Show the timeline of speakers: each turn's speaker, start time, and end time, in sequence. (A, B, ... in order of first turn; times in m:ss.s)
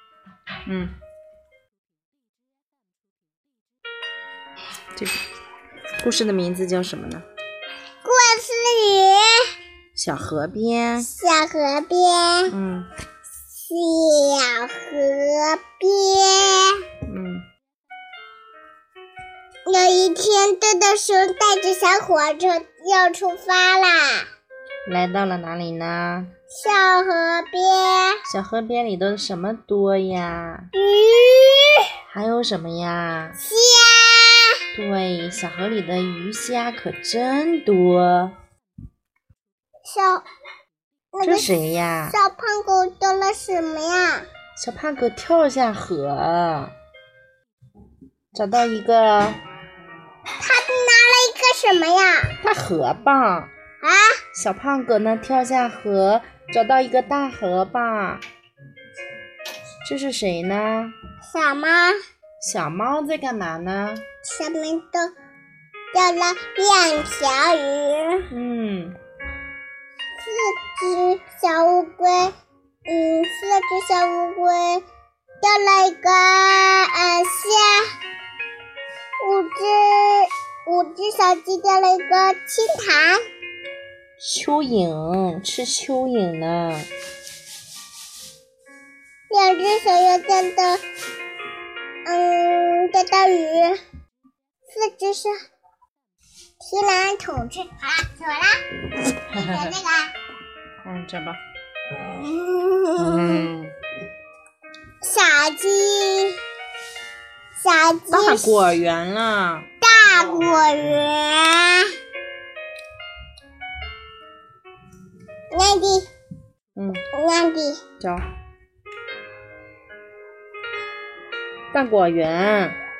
0:00.6-0:00.9 A
0:06.0-0:07.2 A
0:08.0-0:09.5 B
0:09.9-0:11.1 A
0:11.0-0:12.5 B
0:12.5-0:12.9 A
0:13.5-0:16.8 B
0:17.0-0:17.4 A
0:19.6-0:24.2 B
0:24.8-0:26.3 A
0:26.5-0:28.2 B
0:28.3-0:30.7 A
0:30.7-0:31.9 B
0:32.1-0:33.4 A
0:33.4-0:34.6 B
0:34.7-0:38.3 A
0:39.8-0:40.2 B
0:41.1-0:41.5 B
0:41.2-0:42.2 A
0:42.1-0:44.3 B
0:44.6-0:46.7 A
0:48.3-0:49.4 A
0:50.4-0:52.3 B
0:52.4-0:53.5 A
0:53.8-0:54.2 B
0:54.3-0:58.2 A
0:59.8-1:01.0 A
1:01.2-1:02.0 B
1:02.4-1:04.0 A
1:04.2-1:05.1 B
1:05.9-1:08.3 B
1:08.3-1:09.0 A
1:10.2-1:12.3 B
1:12.8-1:14.8 B
1:15.4-1:17.9 B
1:19.2-1:23.2 B
1:24.2-1:26.9 A
1:29.3-1:30.8 B
1:32.0-1:33.8 B
1:34.7-1:35.3 B
1:36.6-1:38.6 B
1:39.3-1:40.1 B
1:39.3-1:39.7 A
1:40.8-1:41.4 A
1:41.9-1:43.5 B
1:43.0-1:43.7 A
1:45.0-1:46.4 B
1:47.6-1:48.5 B
1:48.1-1:49.7 A
1:49.8-1:51.9 B
1:55.5-1:56.1 B
1:56.8-1:57.0 A
1:57.1-1:57.8 B
1:58.0-1:58.2 A
2:01.7-2:02.8 A